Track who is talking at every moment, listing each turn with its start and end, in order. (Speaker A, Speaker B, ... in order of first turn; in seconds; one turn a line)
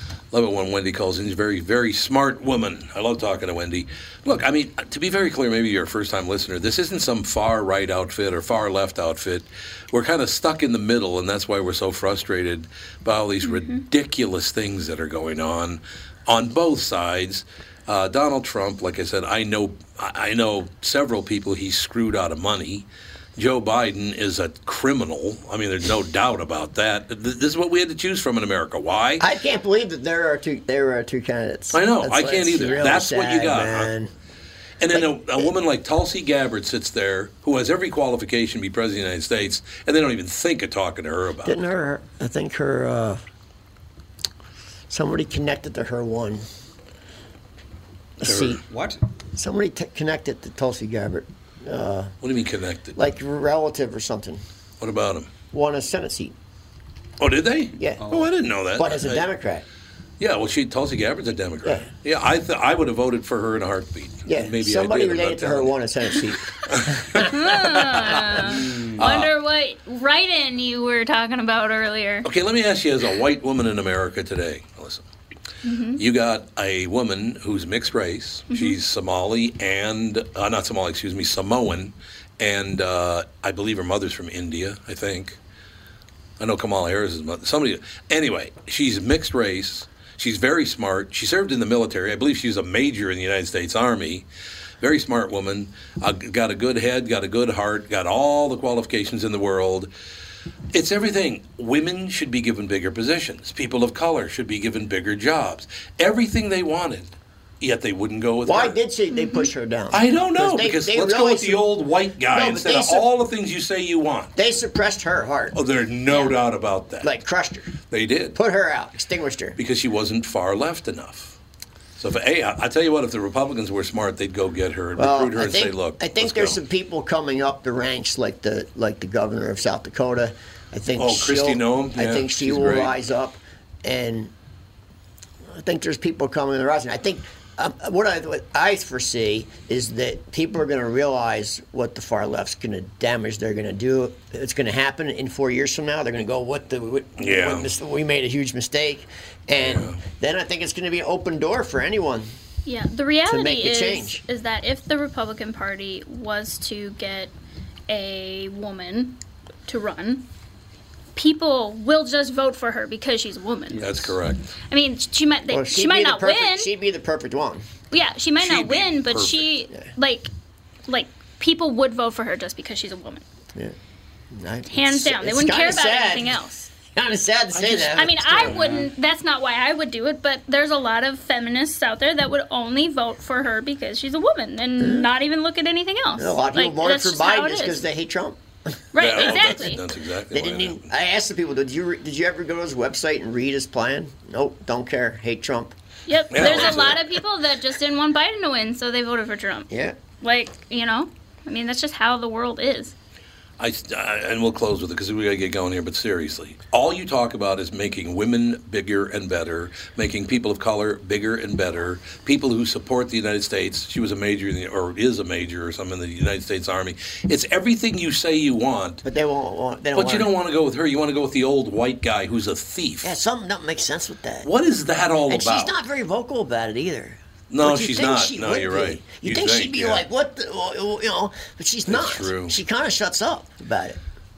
Speaker A: 0.3-29.2
Speaker B: 13.4-13.8
Speaker C: 29.2-34.1
Speaker A: 31.7-33.9
Speaker B: 32.6-32.9
Speaker A: 34.8-41.6
Speaker C: 34.9-35.5
Speaker C: 41.4-43.2
Speaker C: 44.9-46.4
Speaker C: 48.2-48.6
Speaker A: 48.2-48.6
Speaker D: 48.7-49.0
Speaker C: 49.4-52.1
Speaker A: 52.2-53.0
Speaker C: 53.0-54.4
Speaker A: 54.8-55.3
Speaker C: 55.5-56.3
Speaker A: 57.2-59.2
Speaker D: 58.0-58.3
Speaker C: 58.8-59.6
Speaker A: 60.2-65.7
Speaker C: 64.2-67.2
Speaker A: 66.6-68.3
Speaker B: 67.3-72.3
Speaker D: 68.5-69.2
Speaker A: 69.0-69.3
Speaker A: 72.2-75.0
Speaker B: 75.6-76.0
Speaker A: 76.0-85.4
Speaker B: 78.5-78.8
Speaker A: 86.4-94.2
Speaker A: 94.8-99.9
Speaker A: 100.7-108.8
Speaker C: 108.5-111.6
Speaker B: 109.1-109.5
Speaker A: 109.9-114.3
Speaker C: 112.3-113.1
Speaker C: 114.3-115.5
Speaker A: 115.5-117.1
Speaker C: 117.0-117.7
Speaker A: 117.9-118.4
Speaker C: 118.3-119.6
Speaker A: 119.6-121.3
Speaker A: 122.0-126.6
Speaker C: 125.0-134.3
Speaker A: 131.0-132.9
Speaker C: 135.5-152.3
Speaker A: 147.2-147.7
Speaker A: 149.6-150.0
Speaker B: 152.6-157.3
Speaker C: 153.2-154.2
Speaker B: 157.9-160.3
Speaker B: 161.1-163.9
Speaker D: 163.7-164.1
Speaker A: 163.8-164.5
Speaker B: 164.7-166.7
Speaker C: 165.5-167.6
Speaker B: 167.9-170.3
Speaker A: 168.4-169.4
Speaker B: 170.9-173.2
Speaker C: 174.3-176.4
Speaker B: 174.7-176.7
Speaker C: 176.9-178.6
Speaker B: 177.8-187.8
Speaker D: 178.4-178.9
Speaker C: 184.8-185.1
Speaker C: 186.2-188.4
Speaker B: 188.9-189.8
Speaker A: 189.0-190.8
Speaker C: 189.2-189.5
Speaker C: 190.3-195.7
Speaker B: 196.1-202.9
Speaker A: 196.3-197.2
Speaker C: 196.4-196.8
Speaker C: 199.7-200.0
Speaker A: 203.6-219.0
Speaker C: 219.0-220.3
Speaker A: 219.9-223.1
Speaker C: 223.0-224.5
Speaker A: 224.4-225.7
Speaker C: 225.3-234.0
Speaker A: 227.5-230.0
Speaker A: 231.9-232.6